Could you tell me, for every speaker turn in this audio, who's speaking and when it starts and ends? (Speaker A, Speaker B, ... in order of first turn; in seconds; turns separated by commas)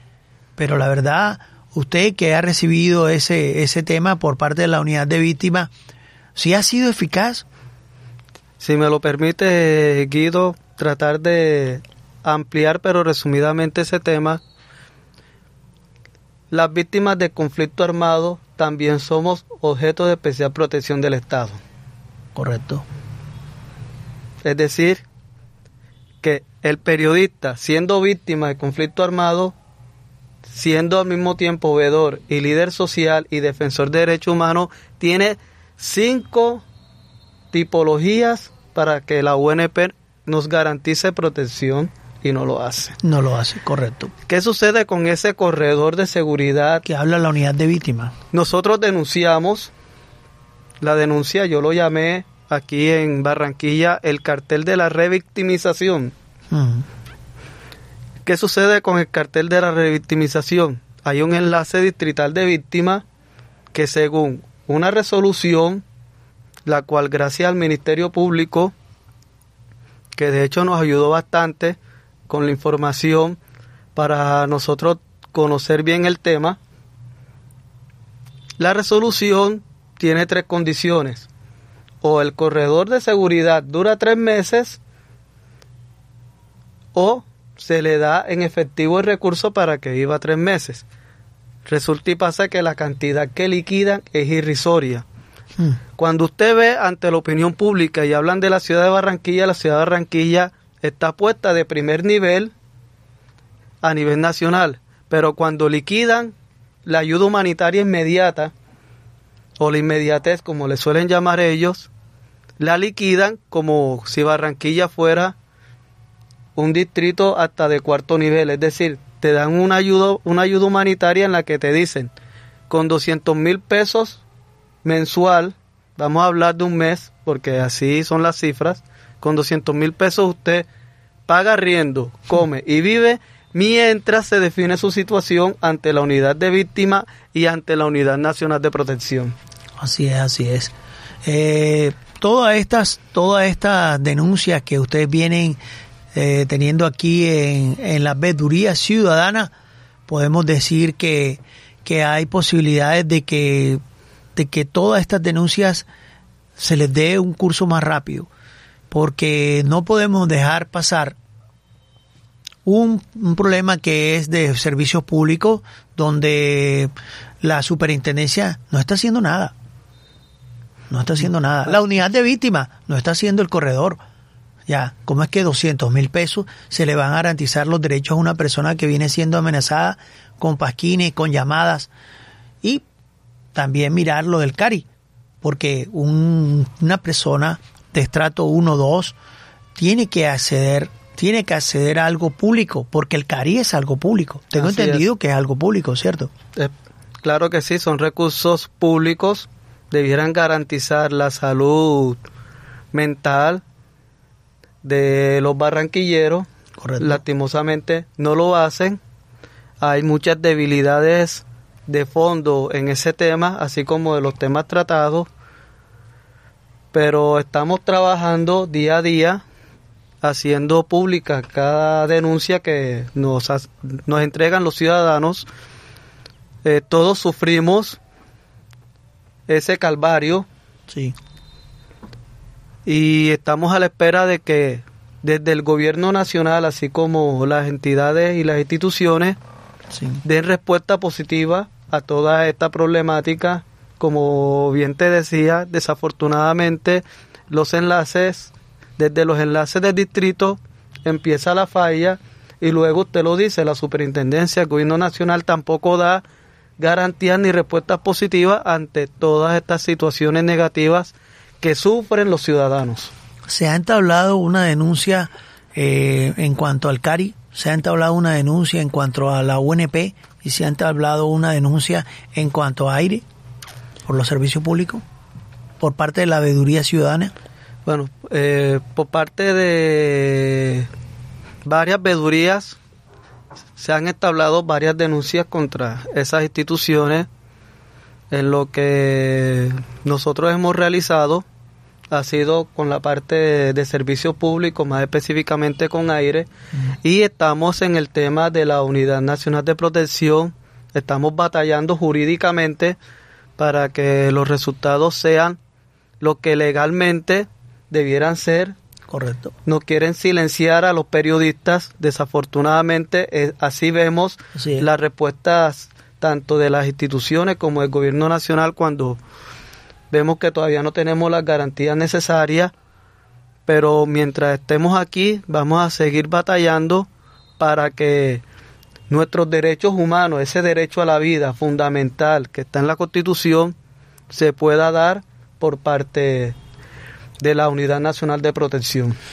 Speaker A: 0.6-5.7, Speaker A: 6.3-7.5, Speaker B: 8.6-14.4, Speaker B: 16.5-21.6, Speaker A: 22.3-22.8, Speaker B: 24.4-25.0, Speaker B: 26.2-29.5, Speaker B: 30.5-36.6, Speaker B: 37.5-43.0, Speaker A: 43.0-44.1, Speaker B: 44.3-46.8, Speaker A: 46.8-48.1, Speaker B: 48.3-49.7, Speaker B: 50.8-56.1, Speaker A: 56.5-56.8, Speaker B: 58.2-63.0, Speaker B: 63.7-65.8, Speaker B: 66.7-68.7, Speaker B: 70.2-71.8, Speaker B: 72.3-73.4, Speaker B: 74.0-76.6, Speaker B: 78.6-81.3, Speaker B: 82.0-84.8, Speaker B: 86.9-90.8, Speaker B: 91.7-95.0, Speaker B: 96.0-102.5, Speaker B: 103.8-106.3, Speaker B: 106.8-108.5, Speaker B: 109.6-111.9, Speaker B: 112.6-115.3, Speaker B: 116.5-122.1, Speaker B: 122.7-124.2, Speaker B: 124.8-130.7, Speaker B: 131.3-139.3, Speaker A: 139.8-145.6, Speaker A: 146.1-149.5, Speaker A: 150.1-153.8, Speaker A: 154.3-155.9, Speaker A: 156.6-158.3, Speaker A: 158.9-161.2, Speaker A: 162.6-169.5, Speaker A: 170.9-174.0, Speaker A: 174.7-181.9, Speaker A: 183.5-184.9, Speaker A: 185.4-189.2, Speaker A: 189.8-196.3, Speaker B: 194.5-195.1, Speaker B: 197.2-202.2, Speaker B: 202.9-203.6, Speaker B: 204.8-206.5, Speaker A: 206.8-207.2, Speaker B: 207.0-209.0, Speaker B: 209.8-215.3, Speaker B: 216.9-219.4, Speaker B: 220.2-225.5, Speaker B: 226.6-228.0, Speaker B: 229.5-230.4, Speaker A: 230.9-231.1, Speaker B: 232.8-239.4, Speaker A: 239.9-240.2, Speaker B: 240.2-256.2, Speaker B: 256.8-263.1, Speaker A: 263.5-273.2, Speaker A: 274.0-275.0, Speaker A: 275.8-277.3, Speaker B: 277.9-280.9, Speaker B: 281.6-282.8, Speaker B: 283.8-287.3, Speaker B: 288.3-291.4, Speaker B: 292.1-296.5, Speaker B: 297.0-303.0, Speaker B: 303.6-305.6, Speaker B: 306.2-308.7, Speaker A: 309.1-309.5, Speaker B: 309.6-319.2, Speaker A: 314.5-314.8, Speaker B: 320.1-322.7, Speaker B: 323.7-327.1, Speaker B: 327.6-328.4, Speaker B: 329.1-333.7, Speaker B: 334.3-336.6, Speaker B: 337.4-339.1